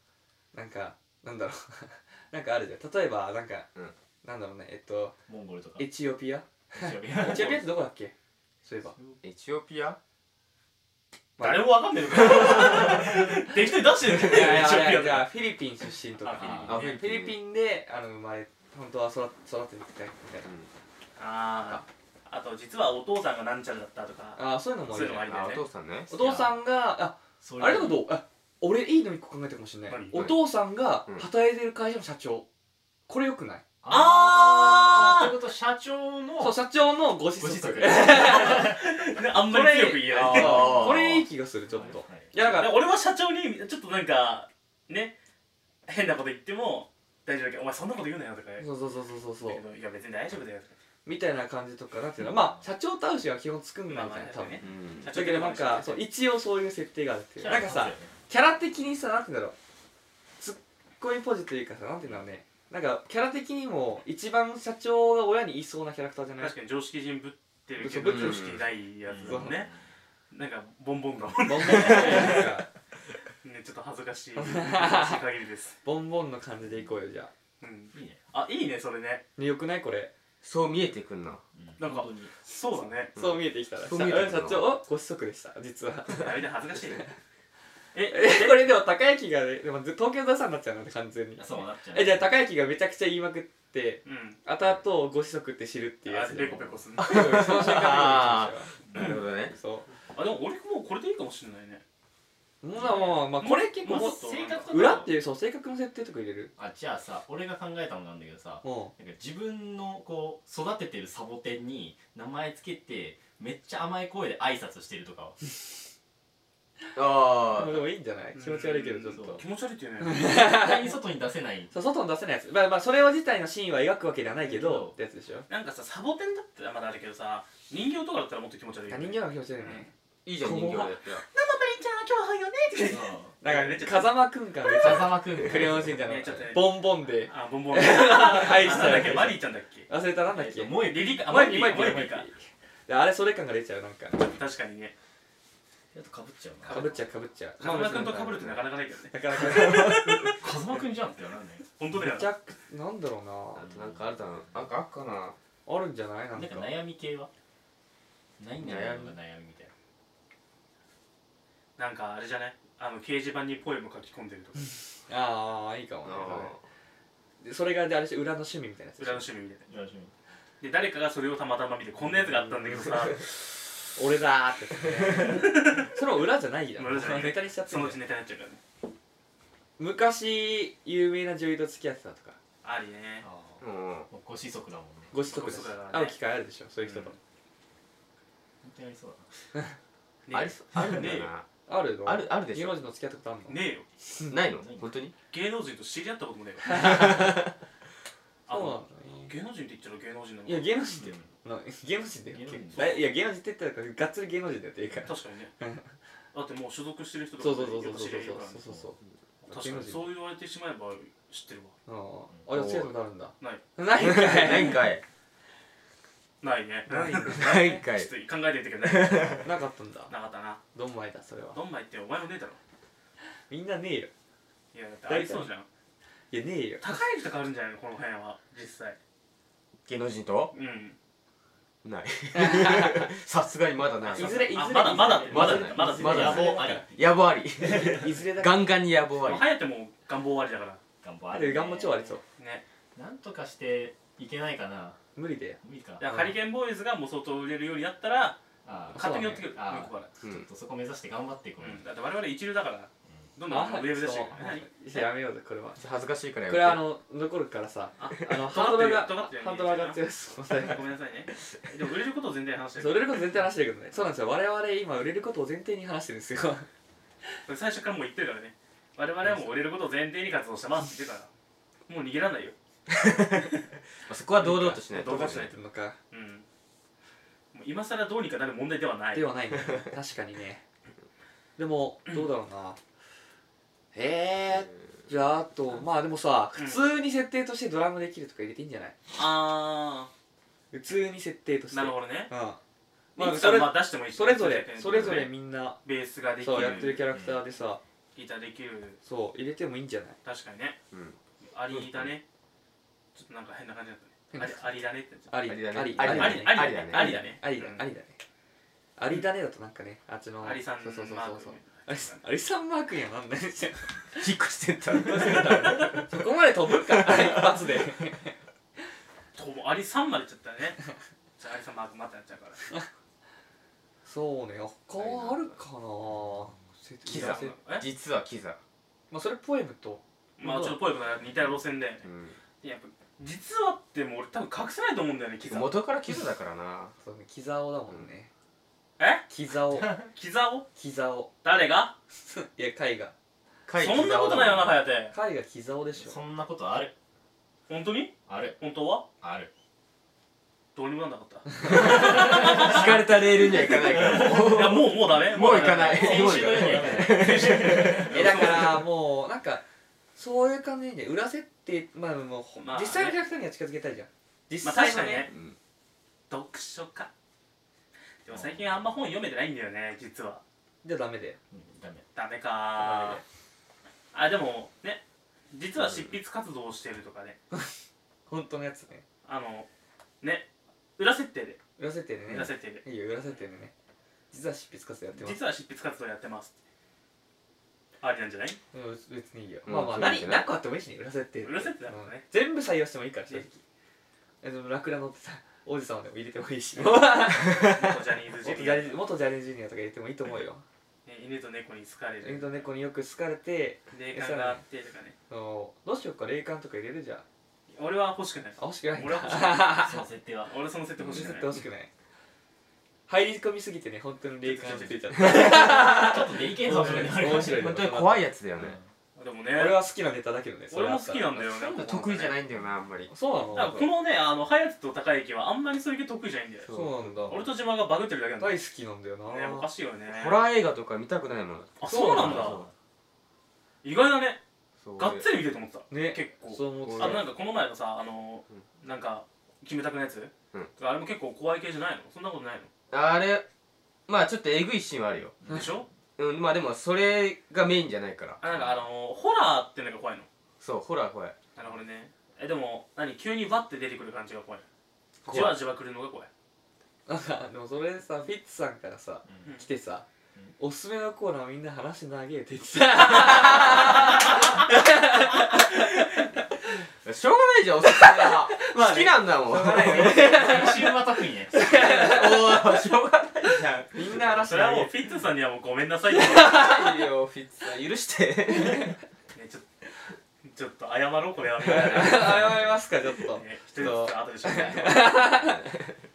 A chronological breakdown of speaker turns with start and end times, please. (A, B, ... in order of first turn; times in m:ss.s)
0:00.5-0:03.7 A
0:04.2-0:05.2 A
0:05.3-0:05.9 B
0:05.8-0:08.9 A
0:06.7-0:07.7 B
0:08.9-0:09.2 B
0:09.2-0:10.0 C
0:11.4-0:11.8 A
0:11.4-0:15.3 D
0:12.3-0:12.8 A
0:14.2-0:20.5 A
0:16.2-0:17.0 D
0:16.4-0:16.8 B
0:16.7-0:17.4 C
0:21.2-0:25.6 D
0:24.4-0:25.3 A
0:25.2-0:26.1 C
0:26.1-0:32.4 A
0:26.1-0:26.6 B
0:27.4-0:28.0 B
0:29.9-0:30.3 D
0:30.1-0:30.4 C
0:33.1-0:33.6 A
0:33.8-0:36.6 B
0:33.9-0:35.3 D
0:36.4-0:38.8 A
0:37.4-0:38.8 B
0:38.1-0:40.8 D
0:39.4-0:42.7 A
0:40.2-0:41.2 C
0:41.7-0:42.3 B
0:42.4-0:45.1 D
0:45.8-0:48.7 D
0:48.6-0:49.6 A
0:49.4-0:50.8 D
0:51.0-0:59.6 A
0:52.2-0:52.6 B
0:53.9-0:56.0 D
0:54.6-0:55.1 C
0:57.4-0:58.1 B
1:00.4-1:06.5 A
1:06.4-1:09.7 D
1:07.8-1:08.5 A
1:08.0-1:08.6 C
1:09.1-1:09.8 B
1:09.2-1:09.6 A
1:10.3-1:12.5 D
1:11.4-1:12.7 A
1:11.7-1:12.4 C
1:13.4-1:15.8 D
1:14.4-1:15.2 A
1:15.8-1:17.3 A
1:17.6-1:19.2 D
1:17.9-1:18.2 B
1:19.4-1:20.1 A
1:20.4-1:21.4 C
1:21.6-1:22.3 B
1:21.8-1:23.1 D
1:23.1-1:27.1 A
1:23.2-1:24.7 C
1:26.1-1:27.1 D
1:27.9-1:28.6 D
1:28.1-1:38.7 A
1:31.4-1:32.3 B
1:34.0-1:34.4 D
1:36.0-1:37.4 D
1:37.0-1:39.5 C
1:38.9-1:39.2 D
1:39.5-1:39.8 A
1:40.1-1:41.8 D
1:42.6-1:46.5 A
1:42.8-1:43.2 B
1:42.8-1:44.7 D
1:43.8-1:45.1 B
1:46.6-1:55.4 B
1:48.6-1:48.9 A
1:56.9-1:57.9 C
1:57.5-1:59.4 A
1:58.3-2:00.2 D
1:59.1-1:59.4 B
2:00.0-2:01.0 A
2:00.2-2:01.7 B
2:01.7-2:05.5 A
2:04.4-2:04.9 B
2:05.5-2:09.9 D
2:08.9-2:10.9 A
2:10.2-2:11.2 C
2:11.3-2:14.2 D
2:12.8-2:13.3 B
2:13.4-2:24.2 A
2:14.7-2:16.0 B
2:16.0-2:19.9 D
2:20.2-2:21.3 B
2:20.8-2:22.3 D
2:24.2-2:24.9 D
2:25.9-2:26.9 B
2:26.6-2:27.0 D
2:26.7-2:30.4 A
2:27.6-2:30.4 D
2:29.4-2:31.6 B
2:31.8-2:32.3 D
2:31.9-2:33.7 A
2:33.6-2:35.4 C
2:33.6-2:34.6 B
2:35.6-2:36.7 A
2:36.3-2:37.3 B
2:38.4-2:39.7 B
2:38.6-2:39.1 C
2:41.8-2:44.7 D
2:45.1-2:46.5 A
2:46.0-2:46.6 C
2:47.4-2:49.2 A
2:49.0-2:49.6 D
2:49.7-2:50.1 B
2:50.6-2:53.2 D
2:52.7-2:53.2 A
2:53.9-2:58.0 A
2:55.2-2:55.9 D
2:56.8-2:58.6 D
2:59.8-3:02.4 A
3:02.6-3:03.2 D
3:03.2-3:05.2 B
3:03.6-3:04.1 C
3:05.1-3:07.1 A
3:05.3-3:06.2 D
3:06.8-3:07.2 D
3:08.6-3:09.3 B
3:10.2-3:11.3 D
3:10.3-3:11.4 C
3:11.7-3:13.6 A
3:12.0-3:12.8 C
3:13.5-3:13.9 D
3:14.1-3:14.4 A
3:14.3-3:15.1 C
3:14.6-3:14.9 B
3:15.3-3:17.3 D
3:16.6-3:17.4 A
3:16.8-3:17.4 C
3:18.5-3:20.7 D
3:18.5-3:19.3 A
3:20.4-3:25.8 A
3:21.0-3:21.3 B
3:22.3-3:23.0 B
3:25.0-3:25.5 D
3:26.3-3:28.7 D
3:27.4-3:30.1 A
3:29.4-3:31.8 D
3:31.8-3:34.9 A
3:32.5-3:32.9 C
3:34.0-3:35.0 C
3:34.2-3:34.8 D
3:36.4-3:39.5 D
3:36.9-3:37.8 A
3:37.2-3:38.1 C
3:38.8-3:39.4 C
3:39.4-3:40.1 A
3:40.1-3:40.6 D
3:40.7-3:41.6 A
3:41.5-3:42.6 D
3:43.5-3:44.1 A
3:44.7-3:45.7 D
3:45.1-3:45.5 A
3:46.3-3:47.0 A
3:46.8-3:49.0 D
3:49.8-3:50.5 C
3:50.5-3:51.0 D
3:51.8-3:54.6 C
3:52.3-3:53.1 A
3:54.0-3:56.6 D
3:54.1-3:56.8 A
3:55.0-3:57.0 B
3:55.3-3:59.5 C
3:57.6-3:58.0 B
3:57.6-3:58.7 A
3:59.2-4:00.8 D
4:01.0-4:02.2 B
4:01.3-4:02.2 A
4:02.4-4:02.6 D
4:02.9-4:05.0 B
4:05.2-4:06.4 A
4:05.6-4:06.0 B
4:06.0-4:08.4 D
4:08.6-4:11.8 B
4:08.9-4:09.5 A
4:08.9-4:10.1 D
4:11.6-4:15.1 D
4:13.5-4:15.8 A
4:15.8-4:16.8 C
4:16.5-4:20.8 A
4:18.0-4:20.0 D
4:20.5-4:23.3 D
4:22.8-4:26.7 A
4:27.4-4:31.3 D
4:31.9-4:32.5 D
4:32.9-4:33.5 C
4:34.1-4:35.5 C
4:34.4-4:36.0 A
4:34.9-4:35.5 D
4:36.1-4:36.4 D
4:37.5-4:39.3 D
4:39.1-4:40.6 A
4:41.6-4:42.8 A
4:43.9-4:48.9 A
4:46.6-4:46.9 D
4:49.1-4:50.1 D
4:50.7-4:52.6 A
4:51.7-4:52.3 D
4:53.1-4:55.3 D
4:53.2-4:55.8 A
4:54.9-4:55.1 C
4:55.8-4:57.0 D
4:56.4-4:57.8 A
4:56.6-4:57.4 B
4:58.1-4:59.0 D
4:59.0-5:00.2 A
5:00.2-5:00.8 D
5:00.9-5:01.2 C
5:01.4-5:02.2 D
5:01.7-5:02.1 C
5:03.2-5:05.3 D
5:04.3-5:04.6 A
5:05.3-5:08.2 A
5:05.4-5:07.2 C
5:06.0-5:07.8 D
5:09.0-5:14.3 A
5:10.4-5:12.2 D
5:14.2-5:16.1 C
5:15.0-5:18.3 A
5:16.7-5:17.5 C
5:19.3-5:20.8 D
5:21.4-5:22.7 D
5:24.0-5:27.5 A
5:25.0-5:25.5 C
5:27.1-5:27.8 D
5:27.1-5:28.6 C
5:29.1-5:30.8 A
5:30.4-5:32.0 D
5:32.0-5:32.4 C
5:32.6-5:35.9 D
5:35.4-5:36.9 C
5:37.0-5:38.3 A
5:39.0-5:39.2 D
5:39.3-5:40.0 A
5:40.1-5:40.6 D
5:40.8-5:41.3 A
5:41.4-5:41.9 D
5:42.2-5:43.1 A
5:43.6-5:44.8 C
5:43.8-5:45.1 D
5:45.1-5:46.2 A
5:46.0-5:46.9 B
5:47.7-5:49.0 D
5:48.3-5:48.6 B
5:49.2-5:49.5 B
5:50.7-5:58.8 D
5:51.6-5:52.1 A
5:51.6-5:58.5 C
5:51.9-5:52.9 B
5:53.4-5:54.4 B
5:55.4-5:58.3 B
5:58.1-5:59.6 A
6:00.2-6:05.3 A
6:02.6-6:03.2 D
6:04.6-6:05.3 D
6:05.3-6:05.6 C
6:06.3-6:07.1 D
6:08.2-6:10.4 D
6:08.3-6:08.9 B
6:10.8-6:11.4 A
6:11.5-6:12.0 B
6:12.1-6:13.2 D
6:12.8-6:13.2 A
6:14.1-6:17.4 D
6:18.3-6:19.0 A
6:19.2-6:19.7 D
6:20.2-6:21.6 D
6:21.8-6:23.7 A
6:22.3-6:22.8 D
6:24.3-6:25.4 A
6:25.1-6:26.5 D
6:28.0-6:28.6 D
6:28.7-6:33.6 A
6:29.6-6:30.5 C
6:31.4-6:32.2 D
6:34.4-6:40.6 A
6:36.8-6:39.0 D
6:37.5-6:37.7 C
6:41.0-6:42.7 D
6:42.2-6:44.6 A
6:43.9-6:45.2 D
6:45.3-6:47.2 A
6:47.7-6:49.8 D
6:48.6-6:50.0 A
6:49.7-6:50.5 B
6:50.4-6:51.5 D
6:51.0-6:51.9 A
6:53.1-6:58.3 A
6:54.4-6:55.5 D
6:55.2-6:55.5 C
6:55.2-6:57.8 B
6:56.8-6:57.1 D
6:57.2-6:58.8 C
6:58.6-6:58.9 B
6:59.2-6:59.8 D
6:59.5-7:01.4 A
7:00.7-7:02.4 D
7:01.4-7:03.1 C
7:03.1-7:03.9 A
7:03.5-7:06.7 D
7:06.6-7:07.5 C
7:06.7-7:07.5 A
7:07.2-7:08.6 D
7:08.4-7:09.7 A
7:09.3-7:10.4 D
7:10.1-7:12.7 C
7:11.8-7:12.6 D
7:11.8-7:12.6 A
7:13.8-7:14.4 D
7:14.8-7:15.2 C
7:15.0-7:22.7 D
7:15.9-7:17.2 A
7:16.8-7:17.2 C
7:22.9-7:23.4 C
7:24.1-7:25.4 C
7:25.4-7:25.7 B
7:25.4-7:25.9 D
7:26.2-7:28.7 C
7:28.4-7:30.3 D
7:30.6-7:31.3 C
7:31.6-7:34.6 D
7:35.2-7:35.6 C
7:35.3-7:36.3 D
7:37.0-7:40.0 A
7:40.6-7:46.4 A
7:47.0-7:50.4 C
7:47.8-7:52.8 A
7:49.7-7:51.6 B
7:51.6-7:54.5 C
7:53.5-7:54.9 A
7:54.4-7:56.5 D
7:56.1-7:57.1 A
7:56.4-7:59.0 C
7:58.5-7:58.9 A
7:59.3-7:59.6 D
8:00.4-8:02.6 D
8:01.6-8:05.7 A
8:01.8-8:02.6 C
8:03.3-8:05.2 D
8:05.4-8:05.7 C